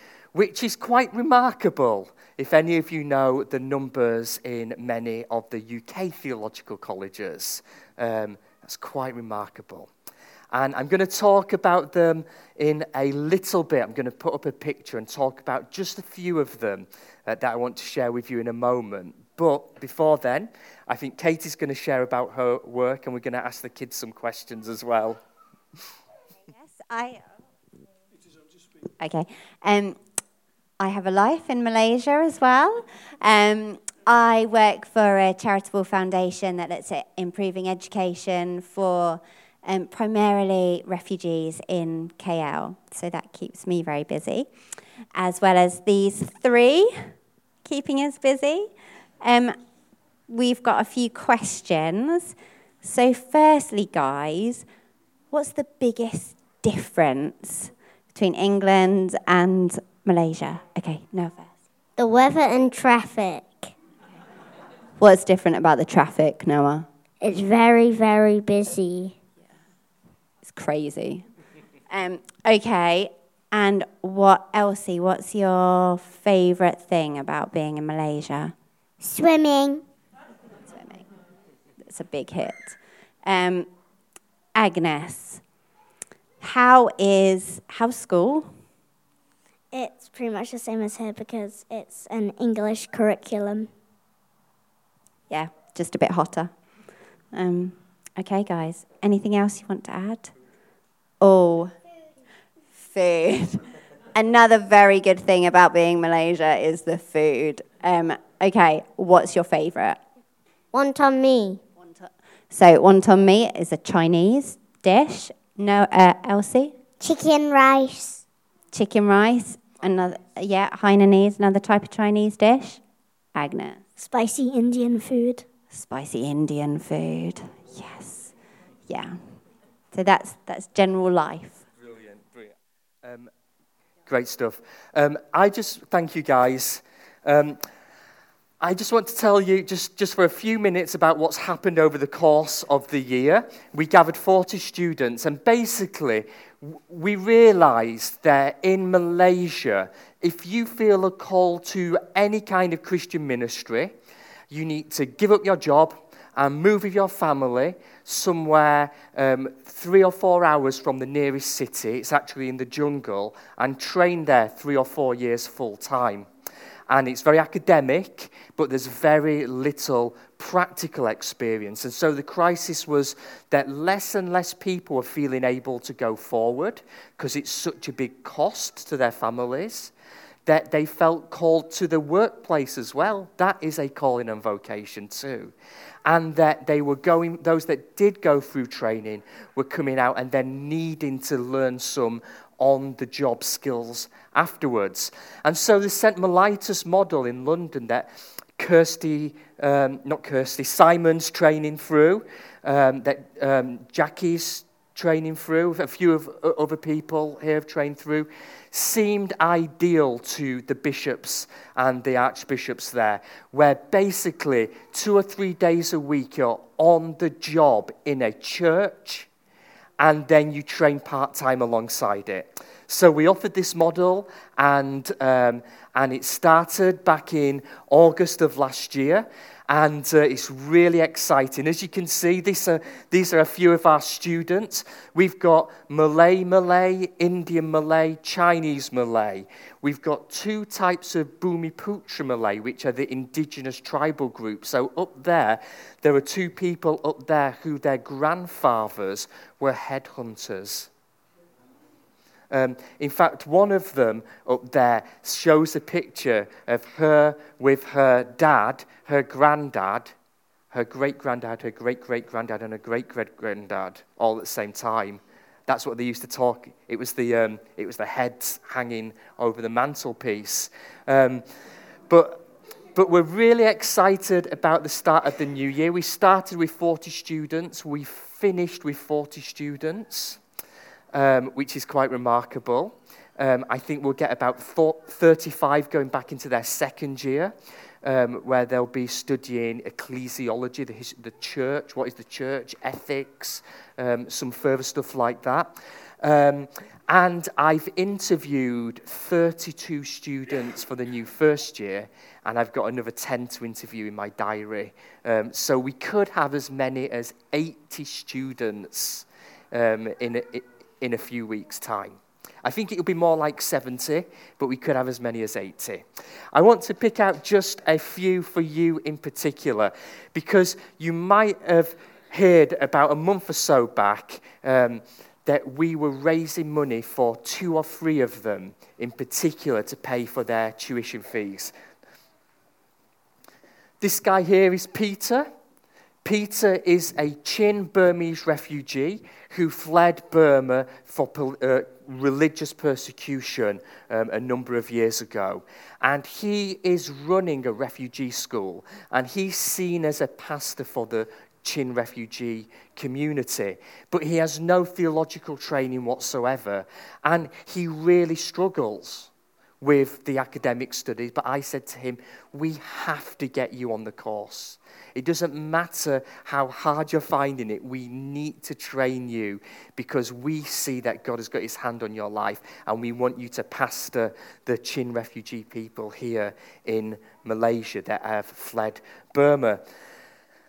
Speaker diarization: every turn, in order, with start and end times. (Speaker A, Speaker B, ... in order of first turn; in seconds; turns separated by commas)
Speaker A: 0.3-9.9, Speaker A: 10.5-25.2, Speaker B: 26.4-27.4, Speaker B: 29.0-30.0, Speaker B: 30.8-44.5, Speaker B: 45.1-49.6, Speaker B: 50.3-54.7, Speaker B: 55.3-61.5, Speaker C: 62.0-63.7, Speaker B: 65.0-66.9, Speaker C: 67.2-69.2, Speaker B: 70.4-71.3, Speaker B: 71.9-78.5, Speaker C: 79.0-79.8, Speaker B: 80.7-81.1, Speaker B: 81.8-83.7, Speaker B: 84.5-85.4, Speaker B: 86.4-88.6, Speaker C: 89.7-93.7, Speaker B: 95.3-96.5, Speaker B: 97.3-100.3, Speaker B: 101.2-101.8, Speaker B: 102.7-110.0, Speaker C: 110.7-111.6, Speaker B: 111.8-116.8, Speaker C: 117.0-118.2, Speaker B: 118.7-122.8, Speaker B: 123.3-123.8, Speaker C: 124.0-125.5, Speaker B: 125.7-128.3, Speaker B: 128.9-131.6, Speaker A: 131.8-133.3, Speaker A: 134.1-137.6, Speaker A: 138.6-153.9, Speaker A: 154.5-166.3, Speaker A: 166.9-179.9, Speaker A: 180.5-185.5, Speaker A: 186.1-219.3, Speaker A: 220.0-250.9, Speaker A: 252.5-260.1, Speaker A: 260.7-271.5, Speaker A: 272.1-280.4, Speaker A: 281.1-331.7, Speaker A: 334.0-335.5, Speaker A: 336.2-379.8